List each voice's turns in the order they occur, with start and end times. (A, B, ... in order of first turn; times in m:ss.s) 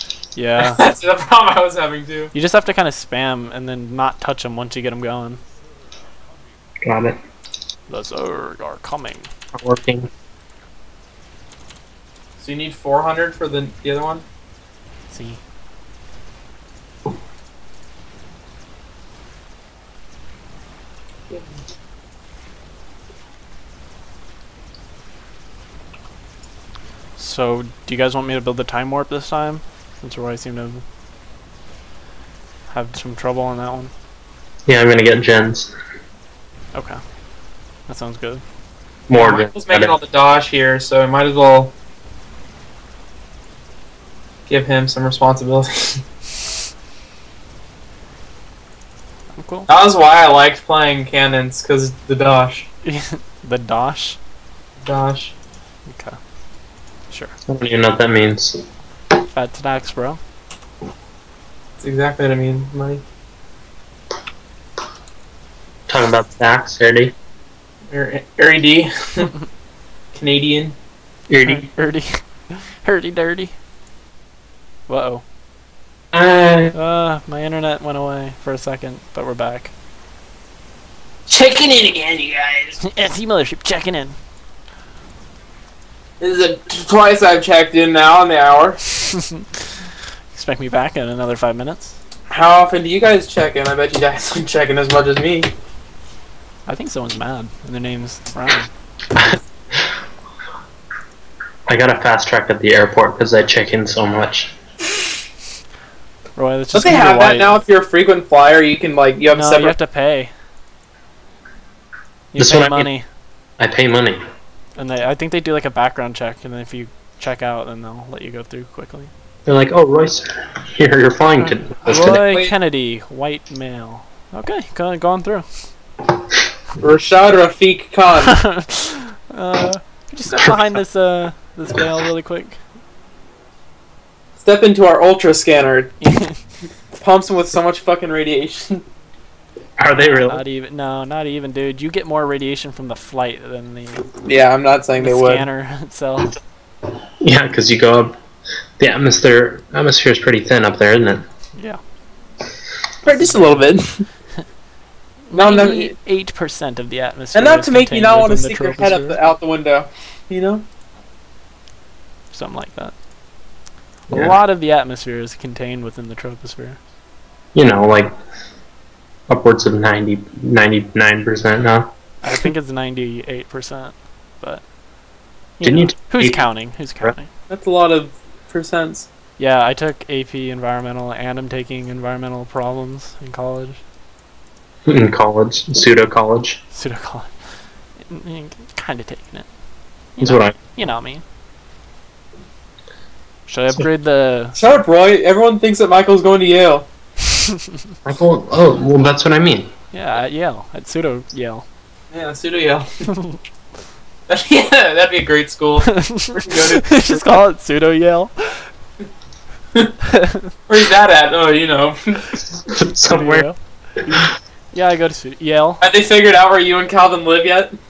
0:00.4-0:00.8 A
0:00.6-0:02.3 B
0:02.3-0:05.4 A
0:06.8-0:07.2 C
0:07.9-0:09.3 A
0:09.5-0:10.1 C
0:12.4-0:14.2 B
0:15.1-0:15.4 A
0:27.2-0:30.8 A
0:32.7-0:33.9 A
0:34.7-0:35.7 C
0:36.7-0:37.0 A
0:37.9-0:38.4 A
0:39.1-0:40.0 C
0:39.1-0:41.7 B
0:44.5-0:46.0 B
0:49.4-0:49.7 A
0:49.7-0:52.7 B
0:52.8-0:54.2 A
0:54.8-0:55.3 B
0:55.9-0:56.2 A
0:57.5-0:58.6 C
0:59.3-1:00.2 A
1:01.8-1:03.0 B
1:05.9-1:07.2 C
1:07.9-1:09.3 B
1:10.1-1:10.8 B
1:11.3-1:11.7 C
1:11.4-1:13.5 A
1:14.9-1:15.2 A
1:16.1-1:16.8 C
1:16.7-1:19.7 A
1:21.3-1:22.8 B
1:22.8-1:24.2 A
1:26.2-1:28.8 B
1:29.1-1:29.6 A
1:30.3-1:32.0 A
1:32.3-1:35.5 B
1:36.7-1:38.7 A
1:39.2-1:39.8 C
1:41.7-1:44.5 C
1:46.4-1:47.6 A
1:46.7-1:49.7 B
1:49.3-1:50.3 A
1:52.3-1:53.0 A
1:52.4-1:52.9 C
1:53.6-1:54.2 C
1:54.8-1:59.1 A
1:59.5-2:02.3 C
2:01.8-2:05.5 A
2:02.2-2:02.5 B
2:06.8-2:08.4 B
2:08.3-2:12.6 A
2:14.4-2:15.9 B
2:16.0-2:16.4 A
2:17.0-2:18.8 B
2:19.8-2:20.4 C
2:20.1-2:24.1 A
2:24.2-2:25.5 B
2:25.0-2:26.4 A
2:27.2-2:28.2 C
2:28.8-2:31.2 C
2:33.0-2:34.0 B
2:33.1-2:33.7 A
2:35.3-2:39.2 A
2:35.3-2:35.9 B
2:37.3-2:40.6 B
2:42.3-2:42.9 A
2:44.1-2:46.8 A
2:44.1-2:44.4 C
2:47.5-2:48.1 C
2:49.3-2:51.9 C
2:52.2-2:54.6 A
2:55.6-2:57.3 A
2:55.6-2:56.5 C
2:57.5-2:59.1 B
2:59.4-3:03.8 A
3:04.9-3:06.6 C
3:06.7-3:07.3 A
3:08.0-3:09.5 A
3:10.2-3:11.2 A
3:10.2-3:10.6 C
3:13.5-3:14.6 A
3:14.6-3:16.9 B
3:17.4-3:17.9 A
3:18.0-3:19.7 C
3:19.9-3:21.6 A
3:22.1-3:22.9 B
3:23.1-3:23.4 A
3:24.3-3:27.2 B
3:25.9-3:28.7 A
3:30.1-3:30.5 A
3:30.7-3:32.4 B
3:32.6-3:33.5 C
3:33.1-3:35.8 A
3:35.8-3:37.8 B